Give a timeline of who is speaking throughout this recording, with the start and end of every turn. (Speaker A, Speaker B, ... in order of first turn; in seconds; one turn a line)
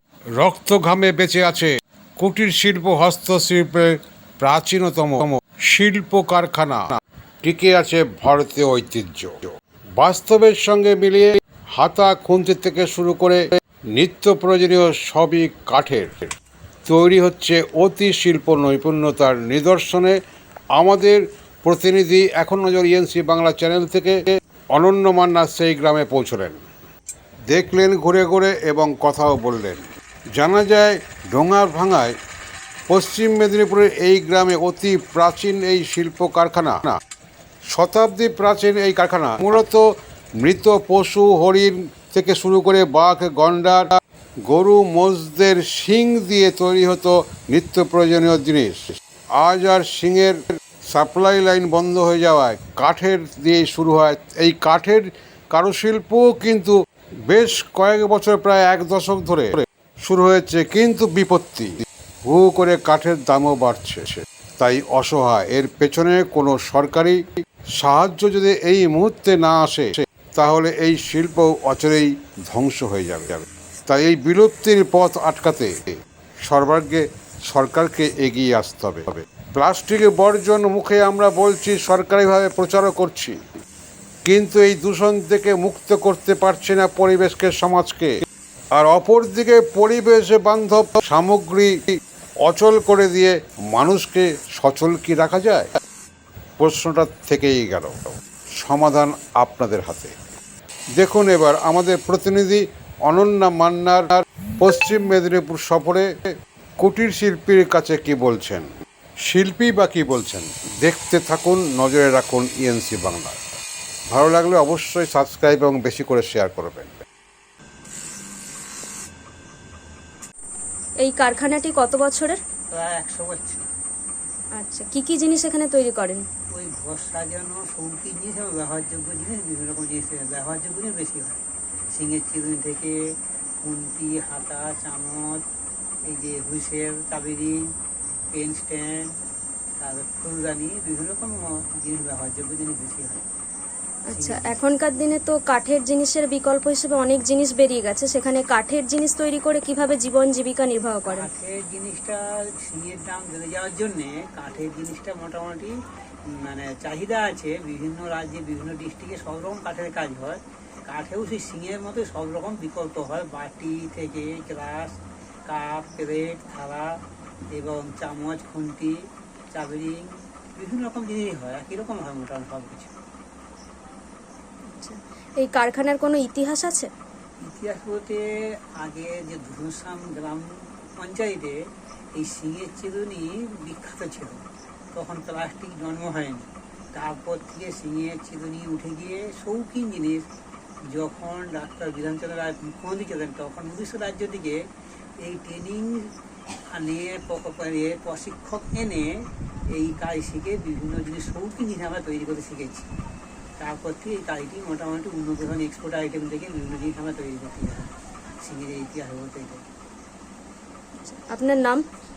Speaker A: 0.4-16.3
Speaker A: 16.9-20.2
Speaker A: 20.8-26.6
Speaker A: 27.5-29.9
Speaker A: 30.4-32.1
Speaker A: 32.9-37.0
Speaker A: 37.7-39.9
Speaker A: 40.4-67.2
Speaker A: 67.8-83.4
Speaker A: 84.2-88.2
Speaker A: 88.8-95.7
Speaker A: 96.6-100.2
Speaker A: 101.0-108.7
Speaker A: 109.3-113.4
Speaker A: 114.1-117.0
Speaker B: 121.0-122.4
Speaker C: 122.7-123.7
Speaker B: 124.5-126.2
Speaker C: 126.5-133.0
Speaker C: 133.6-135.4
Speaker C: 136.1-137.7
Speaker C: 138.3-139.2
Speaker C: 139.8-143.2
Speaker B: 144.1-151.3
Speaker C: 144.1-144.6
Speaker C: 151.1-166.9
Speaker C: 167.5-169.0
Speaker C: 169.5-172.9
Speaker B: 174.7-176.9
Speaker C: 177.4-178.2
Speaker C: 178.8-181.6
Speaker C: 182.2-190.3
Speaker C: 190.9-194.6
Speaker C: 195.2-196.1
Speaker C: 196.7-202.9
Speaker C: 203.6-209.6
Speaker B: 211.0-211.8